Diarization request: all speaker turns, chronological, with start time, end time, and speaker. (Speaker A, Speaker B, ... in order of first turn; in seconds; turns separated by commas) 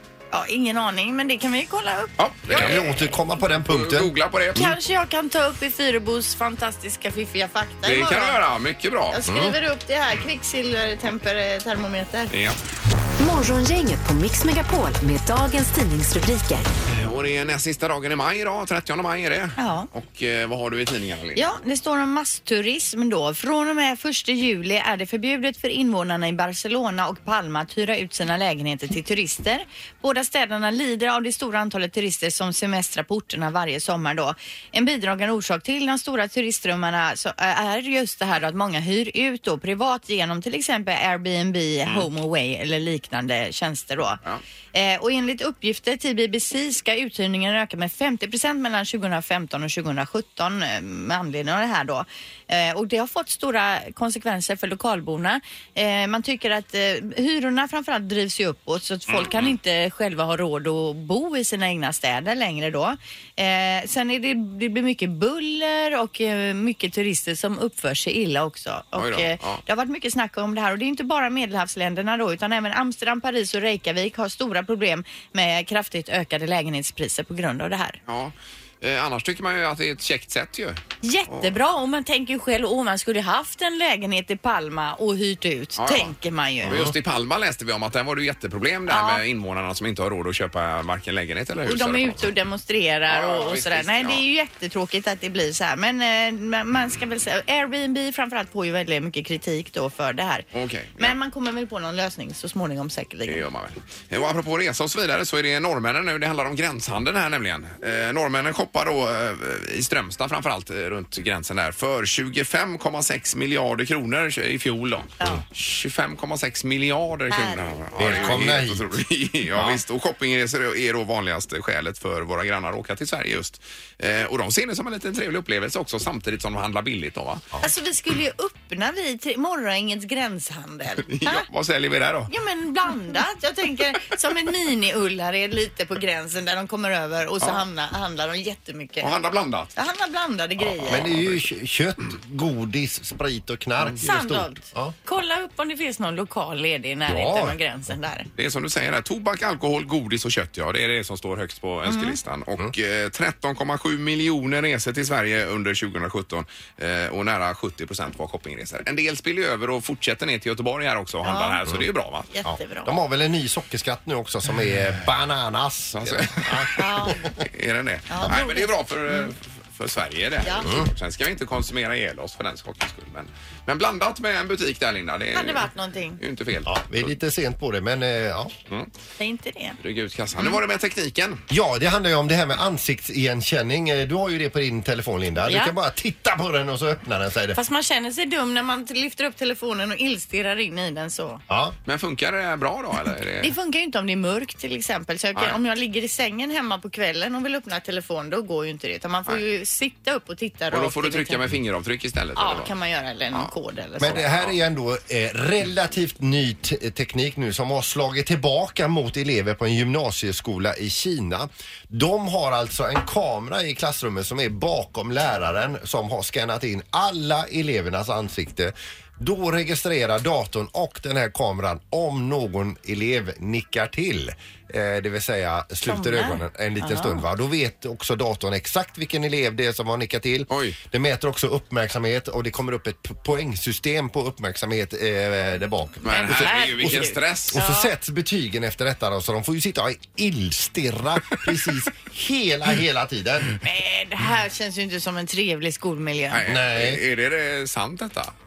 Speaker A: 0.3-2.8, Speaker B: 2.2-4.8, Speaker C: 2.5-4.1, Speaker A: 4.5-8.4, Speaker B: 7.8-9.2, Speaker A: 9.1-12.3, Speaker C: 9.3-9.5, Speaker B: 12.3-12.6, Speaker D: 13.2-16.7, Speaker B: 16.9-21.5, Speaker A: 19.6-19.9, Speaker A: 21.4-44.2, Speaker A: 44.7-78.0, Speaker B: 59.1-59.5, Speaker B: 69.0-69.6, Speaker B: 78.1-81.5, Speaker A: 81.0-86.8, Speaker B: 85.8-92.3, Speaker C: 86.7-86.9, Speaker A: 88.9-89.2, Speaker A: 91.7-100.5, Speaker B: 93.1-94.2, Speaker B: 100.5-101.2, Speaker A: 101.0-103.5, Speaker B: 103.3-127.5, Speaker A: 117.3-118.4, Speaker C: 118.0-118.9, Speaker A: 127.6-131.5, Speaker B: 131.1-132.3, Speaker A: 132.3-139.1, Speaker B: 139.0-139.7, Speaker A: 139.8-141.1, Speaker C: 140.9-144.9, Speaker B: 140.9-141.4, Speaker A: 144.0-148.3, Speaker C: 147.1-147.6, Speaker B: 148.4-162.3, Speaker A: 151.9-152.2, Speaker A: 161.2-161.6, Speaker A: 162.3-163.0, Speaker C: 162.4-167.4, Speaker B: 165.9-166.8, Speaker A: 166.8-167.3, Speaker B: 167.4-177.1, Speaker A: 168.1-169.3, Speaker A: 175.3-176.2, Speaker C: 176.7-178.5, Speaker A: 179.2-179.8, Speaker B: 179.8-181.4, Speaker C: 181.5-187.6, Speaker A: 185.5-185.7, Speaker A: 187.5-191.4, Speaker C: 191.5-191.8, Speaker B: 191.9-193.5, Speaker A: 193.4-201.4, Speaker B: 200.7-202.7, Speaker A: 202.4-204.3, Speaker C: 204.0-243.5, Speaker B: 204.1-204.5, Speaker A: 225.8-227.2, Speaker B: 230.5-230.8, Speaker B: 236.0-237.6, Speaker A: 236.1-237.9, Speaker A: 243.6-246.4, Speaker B: 246.3-248.3, Speaker C: 246.5-247.0